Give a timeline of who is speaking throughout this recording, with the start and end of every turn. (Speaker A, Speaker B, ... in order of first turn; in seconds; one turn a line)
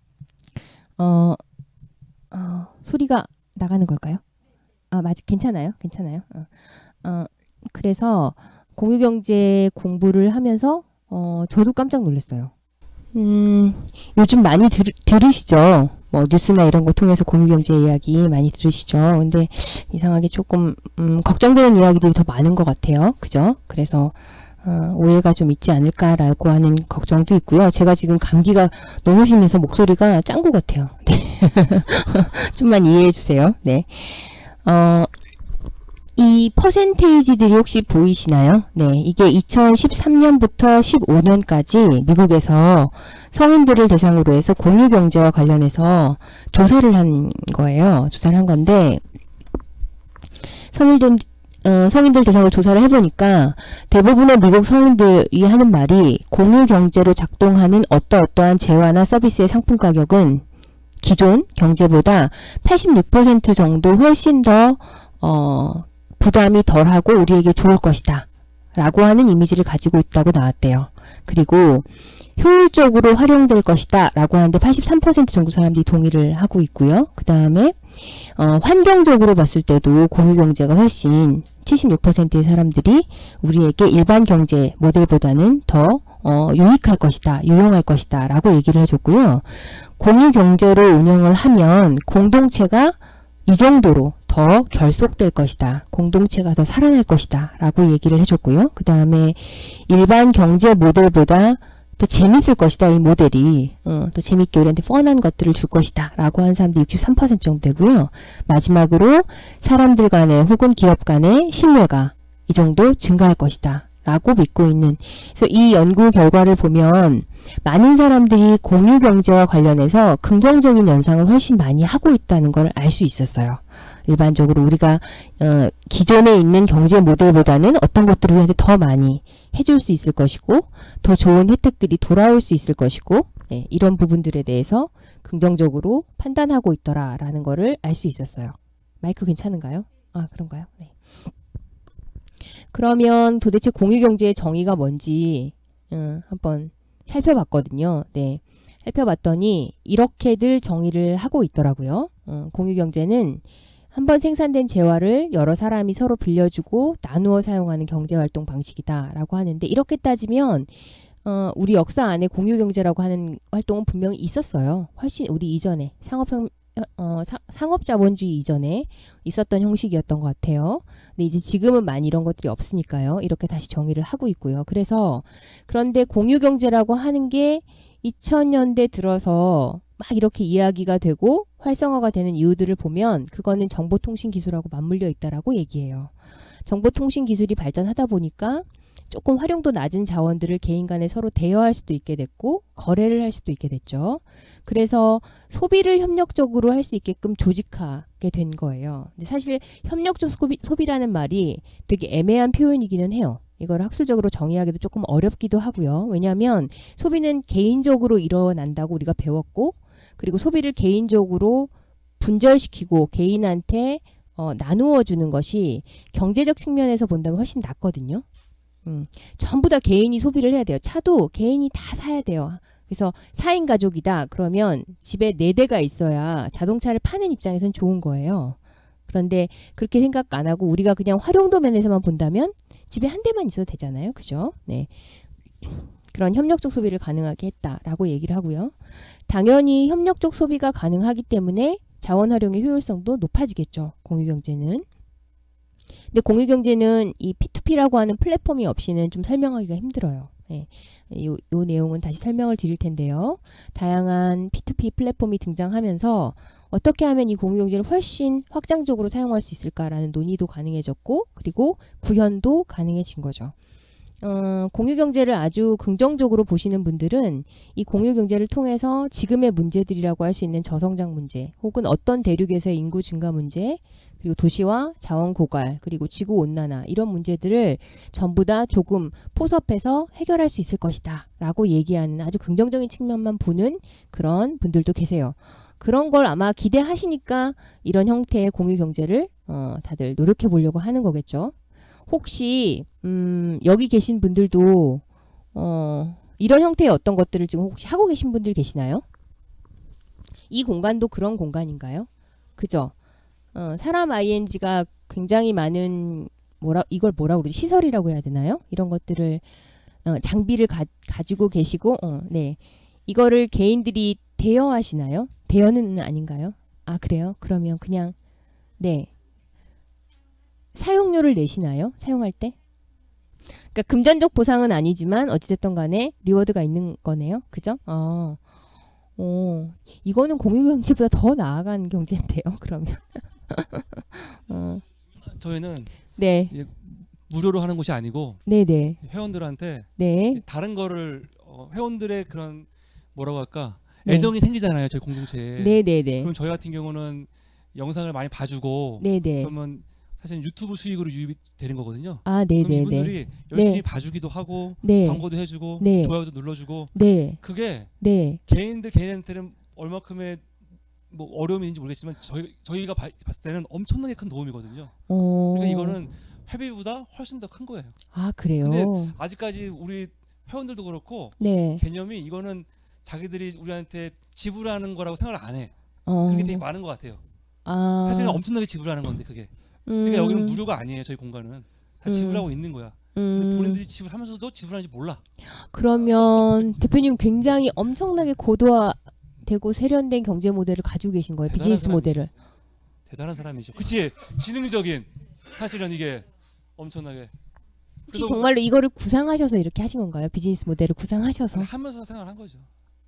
Speaker A: 1.0-1.4
Speaker A: 2.3-4.2
Speaker A: 4.9-6.5
Speaker A: 7.0-12.5
Speaker A: 13.1-35.1
Speaker A: 36.2-49.0
Speaker A: 50.7-60.4
Speaker A: 61.0-140.9
Speaker A: 142.7-160.7
Speaker A: 161.2-186.1
Speaker A: 186.7-218.2
Speaker A: 218.8-228.6
Speaker A: 229.1-234.9
Speaker A: 235.6-238.8
Speaker A: 239.3-244.9
Speaker A: 246.1-263.5
Speaker A: 264.2-291.5
Speaker A: 292.1-295.0
Speaker A: 295.5-299.1
Speaker A: 300.5-302.9
Speaker A: 303.5-309.5
Speaker A: 310.1-318.2
Speaker A: 318.8-319.1
Speaker A: 320.7-322.6
Speaker A: 323.7-328.4
Speaker A: 329.2-334.8
Speaker B: 335.2-336.0
Speaker A: 336.2-336.5
Speaker B: 336.5-338.4
Speaker A: 338.5-339.0
Speaker B: 339.0-357.9
Speaker A: 340.0-340.4
Speaker A: 344.1-344.3
Speaker A: 345.6-346.3
Speaker A: 349.0-349.5
Speaker A: 352.2-353.8
Speaker A: 354.8-355.2
Speaker A: 355.8-356.2
Speaker A: 356.9-357.4
Speaker A: 358.0-358.4
Speaker B: 358.5-360.5
Speaker B: 361.1-364.9
Speaker A: 365.1-366.0
Speaker B: 365.5-368.0
Speaker A: 368.1-369.2
Speaker B: 368.6-375.7
Speaker A: 371.4-371.8
Speaker A: 376.1-376.6
Speaker B: 376.3-377.2
Speaker A: 377.6-378.4
Speaker B: 378.1-379.5
Speaker A: 379.9-380.6
Speaker B: 380.0-385.2
Speaker A: 382.1-382.5
Speaker A: 383.1-383.8
Speaker A: 385.4-392.3
Speaker B: 391.5-392.2
Speaker B: 393.1-397.3
Speaker A: 398.1-401.7
Speaker B: 398.1-398.5
Speaker B: 401.5-402.7